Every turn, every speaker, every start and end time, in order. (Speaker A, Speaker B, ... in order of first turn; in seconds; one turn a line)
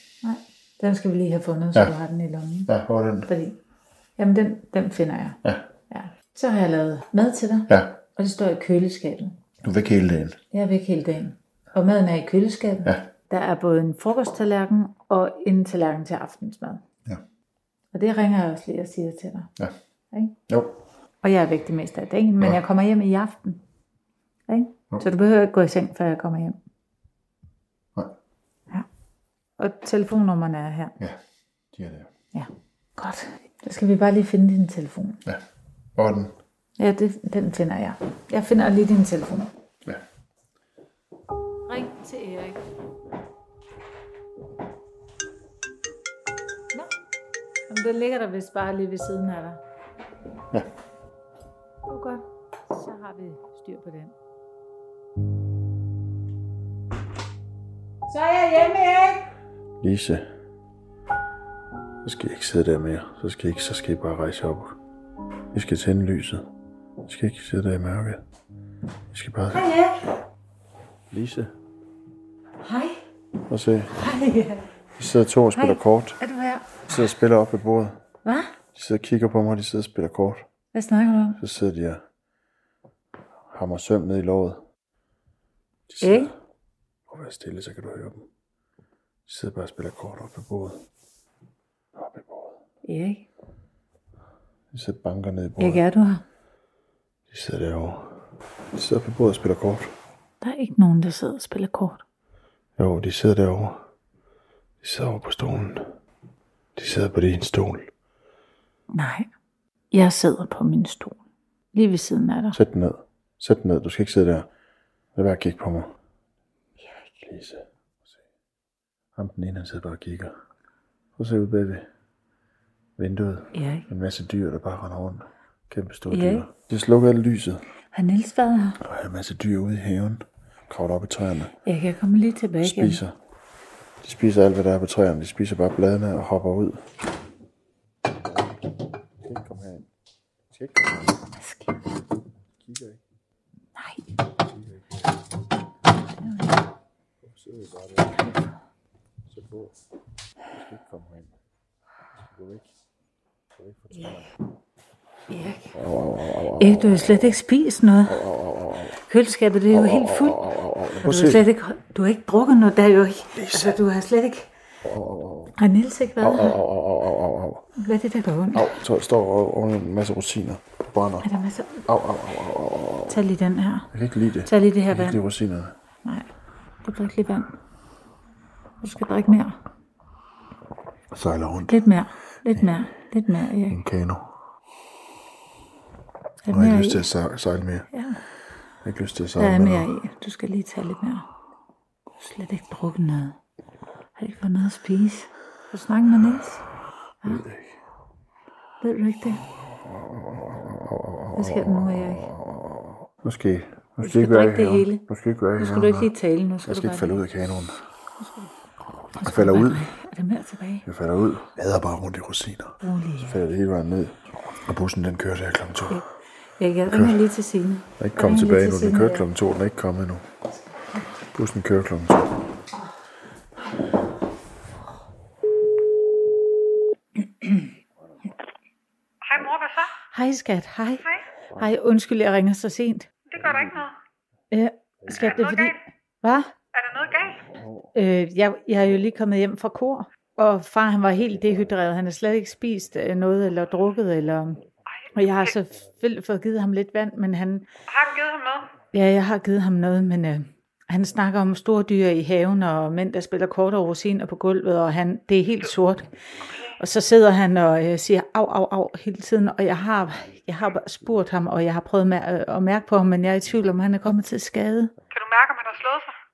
Speaker A: 0.2-2.7
Speaker B: 2.7-3.3
Speaker A: 3.2-3.6
Speaker A: 4.2-9.4
Speaker B: 7.7-8.0
Speaker B: 9.6-10.4
Speaker A: 10.5-16.8
Speaker A: 17.9-19.5
Speaker A: 20.1-20.4
Speaker B: 20.5-20.8
Speaker A: 21.2-23.6
Speaker A: 24.5-26.6
Speaker A: 29.6-30.9
Speaker B: 31.7-32.1
Speaker A: 32.3-35.2
Speaker B: 36.0-36.3
Speaker A: 36.8-39.5
Speaker A: 41.7-42.6
Speaker A: 47.7-49.6
Speaker A: 51.9-54.1
Speaker A: 58.1-59.3
Speaker B: 59.8-60.3
Speaker B: 62.0-64.8
Speaker B: 65.5-66.5
Speaker B: 67.0-68.2
Speaker B: 69.1-69.7
Speaker A: 69.5-70.1
Speaker B: 71.1-71.5
Speaker A: 72.6-73.0
Speaker B: 73.5-74.0
Speaker A: 74.0-74.7
Speaker B: 75.0-76.2
Speaker A: 75.5-76.9
Speaker B: 76.9-78.0
Speaker A: 78.2-78.5
Speaker B: 78.7-80.5
Speaker A: 80.7-81.4
Speaker B: 81.4-82.0
Speaker B: 83.5-84.6
Speaker B: 85.9-86.3
Speaker A: 86.0-86.3
Speaker B: 87.1-88.2
Speaker B: 89.3-90.8
Speaker B: 91.9-92.6
Speaker A: 92.8-93.3
Speaker B: 94.7-95.8
Speaker A: 95.6-96.2
Speaker B: 97.3-98.2
Speaker B: 98.7-99.9
Speaker A: 100.4-102.0
Speaker B: 102.8-103.8
Speaker B: 104.8-105.9
Speaker B: 106.8-107.9
Speaker A: 108.9-109.3
Speaker A: 109.9-111.2
Speaker A: 111.7-112.6
Speaker B: 112.5-114.5
Speaker B: 115.1-115.9
Speaker B: 117.2-118.2
Speaker B: 119.2-120.4
Speaker B: 121.2-121.8
Speaker B: 123.0-127.6
Speaker A: 123.5-123.9
Speaker A: 126.1-126.5
Speaker A: 127.9-128.8
Speaker B: 128.8-131.5
Speaker A: 131.6-133.0
Speaker B: 132.6-133.1
Speaker B: 134.0-136.8
Speaker B: 138.1-139.9
Speaker B: 140.5-141.2
Speaker A: 141.4-141.8
Speaker B: 142.6-143.0
Speaker A: 143.8-144.0
Speaker B: 144.3-145.1
Speaker A: 146.2-146.6
Speaker B: 147.2-148.4
Speaker B: 149.3-149.7
Speaker B: 150.5-151.3
Speaker B: 152.2-152.7
Speaker B: 153.6-154.3
Speaker A: 155.3-155.7
Speaker B: 155.7-157.3
Speaker A: 156.6-158.2
Speaker B: 158.0-159.0
Speaker A: 159.0-160.5
Speaker B: 159.7-161.4
Speaker A: 161.0-164.5
Speaker B: 163.3-163.8
Speaker B: 164.8-165.6
Speaker A: 165.6-166.6
Speaker B: 166.2-167.7
Speaker A: 167.8-168.8
Speaker B: 168.5-171.3
Speaker A: 171.2-171.8
Speaker B: 171.9-173.2
Speaker A: 173.1-173.9
Speaker B: 173.9-175.8
Speaker A: 174.4-175.2
Speaker A: 176.8-177.5
Speaker A: 178.8-179.6
Speaker B: 181.1-181.8
Speaker A: 181.7-183.8
Speaker B: 183.7-184.3
Speaker A: 186.4-187.1
Speaker B: 186.5-187.9
Speaker A: 187.9-188.2
Speaker B: 188.8-189.9
Speaker A: 189.4-191.3
Speaker A: 192.2-193.4
Speaker A: 194.2-196.6
Speaker B: 197.2-197.8
Speaker A: 198.8-199.4
Speaker B: 199.7-206.1
Speaker A: 201.3-202.3
Speaker A: 204.0-205.0
Speaker A: 205.6-207.2
Speaker B: 206.6-207.8
Speaker B: 209.2-209.9
Speaker A: 209.2-210.9
Speaker B: 210.8-216.1
Speaker A: 212.8-213.4
Speaker A: 216.6-219.3
Speaker B: 216.9-217.2
Speaker B: 218.0-220.3
Speaker B: 221.3-222.4
Speaker C: 229.2-229.9
Speaker A: 230.1-233.1
Speaker C: 233.3-233.9
Speaker A: 234.5-236.5
Speaker C: 235.1-235.8
Speaker C: 236.7-237.5
Speaker B: 237.5-237.9
Speaker A: 237.9-244.6
Speaker C: 245.0-245.6
Speaker A: 245.1-247.7
Speaker C: 247.9-248.8
Speaker A: 248.9-256.1
Speaker A: 256.8-264.9
Speaker C: 265.1-266.1